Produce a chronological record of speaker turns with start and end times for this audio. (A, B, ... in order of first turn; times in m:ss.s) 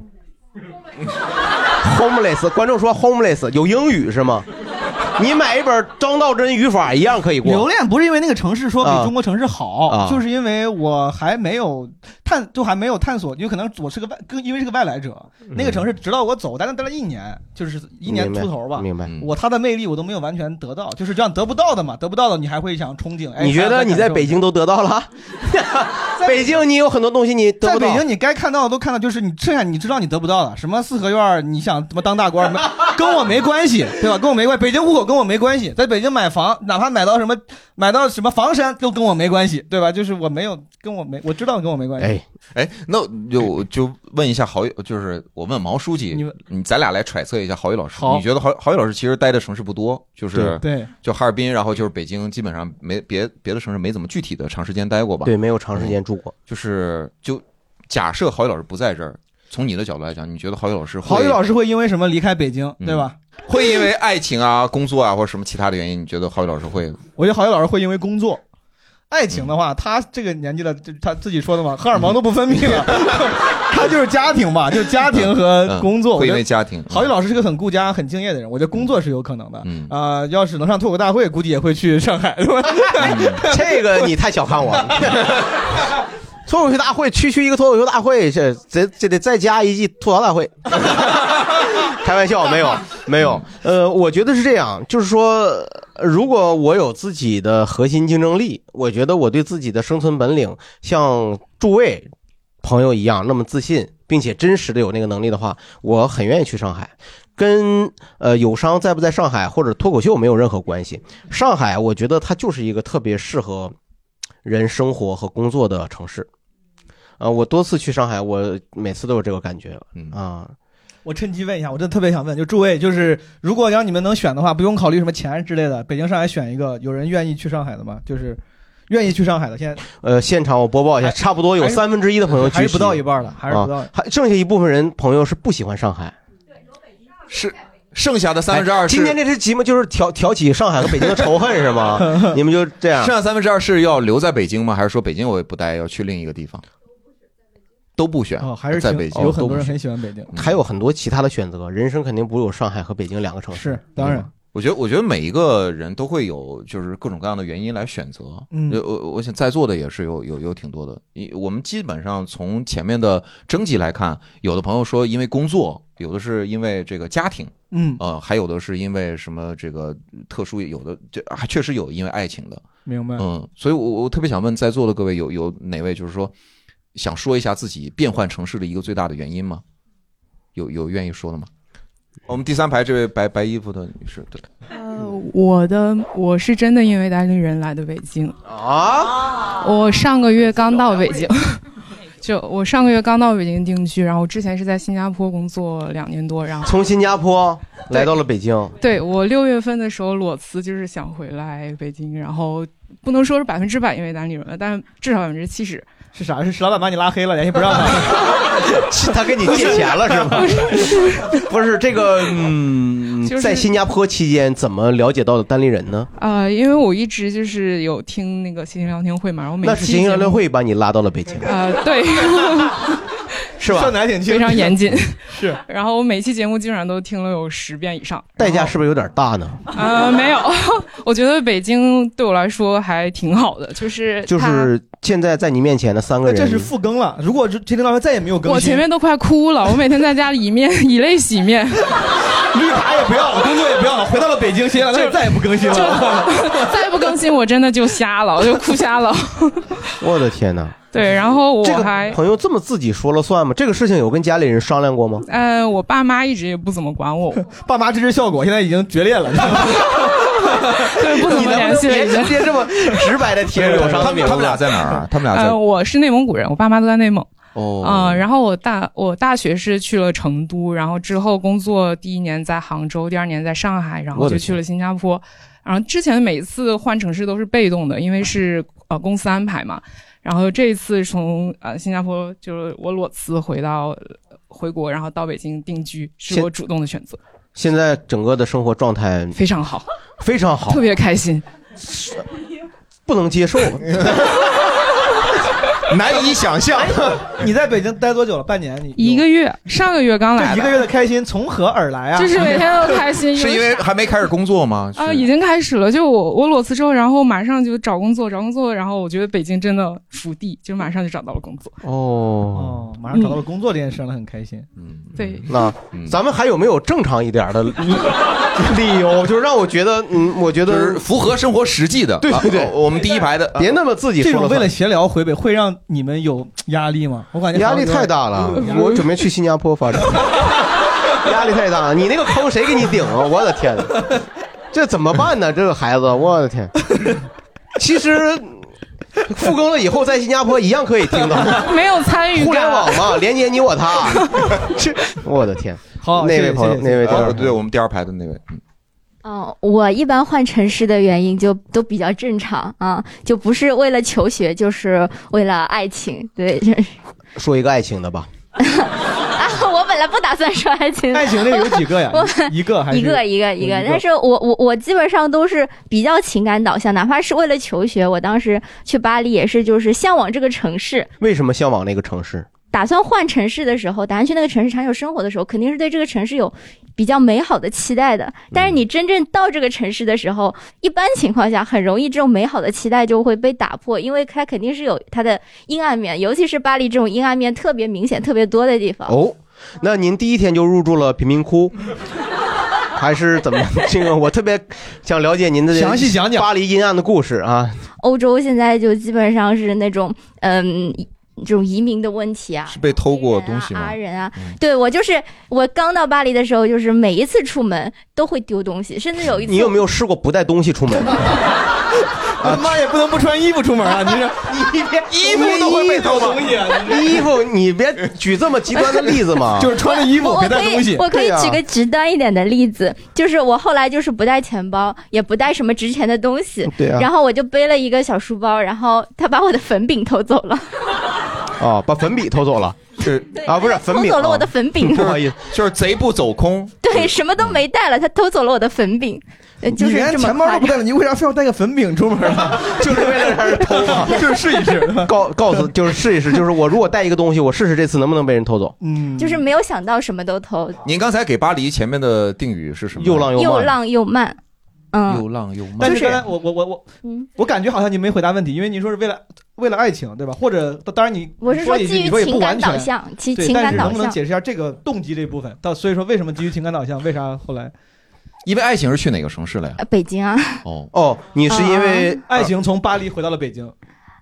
0:01.8-0:04.4 A
0:05.2-0:07.7 A
0:07.4-0:24.4 B
0:08.8-0:09.1 A
0:09.9-0:10.2 A
0:15.5-0:15.8 A
0:18.0-0:19.1 A
0:23.4-0:28.0 A
0:27.6-0:42.2 B
0:42.5-0:56.0 C
0:47.9-0:48.2 B
0:50.6-0:50.9 B
0:55.2-0:56.3 A
0:56.5-1:01.4 C
1:01.0-1:03.1 B
1:02.8-1:07.0 C
1:07.2-1:08.4 B
1:09.1-1:23.8 B
1:15.1-1:17.1 C
1:19.6-1:19.9 C
1:23.0-1:23.4 C
1:23.0-1:25.4 A
1:26.4-1:42.1 A
1:42.6-1:53.8 A
1:54.4-1:56.3 A
1:57.2-2:00.5 A
2:01.0-2:09.8 B
2:09.9-2:16.1 A
2:11.0-2:13.9 B
2:17.3-2:19.2 C
2:18.5-2:23.1 A
2:21.9-2:22.4 B
2:23.0-2:26.6 C
2:28.0-2:29.7 C
2:28.4-2:30.3 B
2:29.1-2:29.5 A
2:30.3-2:34.1 A
2:33.5-2:34.3 B
2:34.0-2:52.6 C
2:38.5-2:38.8 B
2:47.7-2:48.0 B
2:52.9-2:53.2 B
2:53.2-2:56.3 C
2:56.9-2:59.6 C
3:00.5-3:01.5 C
3:02.3-3:04.4 C
3:04.7-3:08.4 D
3:08.4-3:09.3 A
3:09.6-3:11.6 D
3:12.2-3:16.8 D
3:16.6-3:18.8 A
3:18.8-3:25.9 D
3:26.1-3:28.4 B
3:28.9-3:30.8 A
3:29.4-3:30.9 B
3:30.3-3:31.3 D
3:31.3-3:36.1 A
3:33.2-3:33.7 D
3:36.2-3:40.4 D
3:39.6-3:41.5 A
3:41.4-3:42.9 D
3:43.6-3:44.0 A
3:43.6-3:44.8 B
3:44.2-3:48.4 D
3:45.3-3:45.6 B
3:48.4-3:49.6 A
3:49.7-3:54.7 D
3:54.3-3:56.7 A
3:56.2-3:58.9 B
3:58.4-4:02.0 D
4:02.5-4:07.1 B
4:04.8-4:09.8 D
4:10.0-4:10.8 A
4:10.9-4:12.2 D
4:11.6-4:15.2 A
4:15.2-4:17.4 D
4:17.5-4:21.5 B
4:20.9-4:22.6 D
4:21.2-4:24.6 A
4:23.6-4:24.1 B
4:23.7-4:25.6 C
4:25.3-4:47.2 D
4:27.6-4:28.2 C
4:34.2-4:34.6 A
4:47.6-4:49.4 A
4:49.3-4:49.9 D
4:50.2-4:50.9 A
4:50.7-4:51.4 D
4:51.9-4:52.2 A
4:53.1-4:54.3 A
4:53.9-4:54.3 C
4:55.9-4:57.2 C
4:56.8-4:59.2 B
4:59.0-5:00.8 D
5:00.4-5:02.9 B
5:02.1-5:03.8 D
5:03.3-5:05.3 C
5:05.0-5:11.8 D
5:11.8-5:12.8 A
5:12.5-5:14.7 B
5:14.8-5:16.1 C
5:15.2-5:15.5 D
5:15.5-5:21.0 A
5:20.6-5:23.7 C
5:22.2-5:22.8 A
5:23.5-5:24.7 A
5:24.2-5:29.0 B
5:27.5-5:30.3 A
5:31.2-5:34.1 A
5:34.7-5:36.7 A
5:37.8-5:38.7 A
5:39.3-5:41.7 A
5:41.6-5:43.2 D
5:42.3-5:47.5 A
5:44.0-5:44.4 D
5:46.0-5:47.4 B
5:47.1-5:48.6 C
5:49.2-5:57.0 E
5:57.4-5:58.3 A
5:58.6-6:11.1 E
6:01.1-6:04.0 B
6:11.2-6:12.5 A
6:12.7-6:29.2 E
6:29.1-6:31.7 A
6:32.9-6:37.8 A
6:35.7-6:36.5 B
6:38.0-6:49.8 E
6:42.7-6:44.6 C
6:49.4-6:51.3 A
6:52.4-6:57.2 B
6:52.4-6:52.8 A
6:54.5-6:59.7 A
6:55.1-6:56.4 C
6:59.5-7:01.1 B
6:59.8-7:10.7 E
7:01.1-7:01.6 A
7:06.6-7:07.1 A
7:11.6-7:15.4 A
7:13.0-7:13.4 C
7:13.4-7:15.2 E
7:15.0-7:17.5 C
7:16.8-7:20.8 E
7:19.7-7:25.6 B
7:22.5-7:24.4 A
7:25.0-7:28.8 A
7:28.8-7:29.4 B
7:29.2-7:30.8 E
7:30.8-7:33.3 C
7:33.0-7:33.7 A
7:33.4-7:34.4 E
7:34.9-7:35.2 E
7:35.1-7:36.0 C
7:35.8-7:36.8 B
7:35.8-7:36.2 E
7:37.4-7:47.7 B
7:41.4-7:44.2 E
7:48.4-7:49.8 C
7:49.8-7:50.6 E
7:50.6-7:50.9 C
7:50.9-7:52.5 A
7:51.5-7:52.1 E
7:52.3-7:53.7 B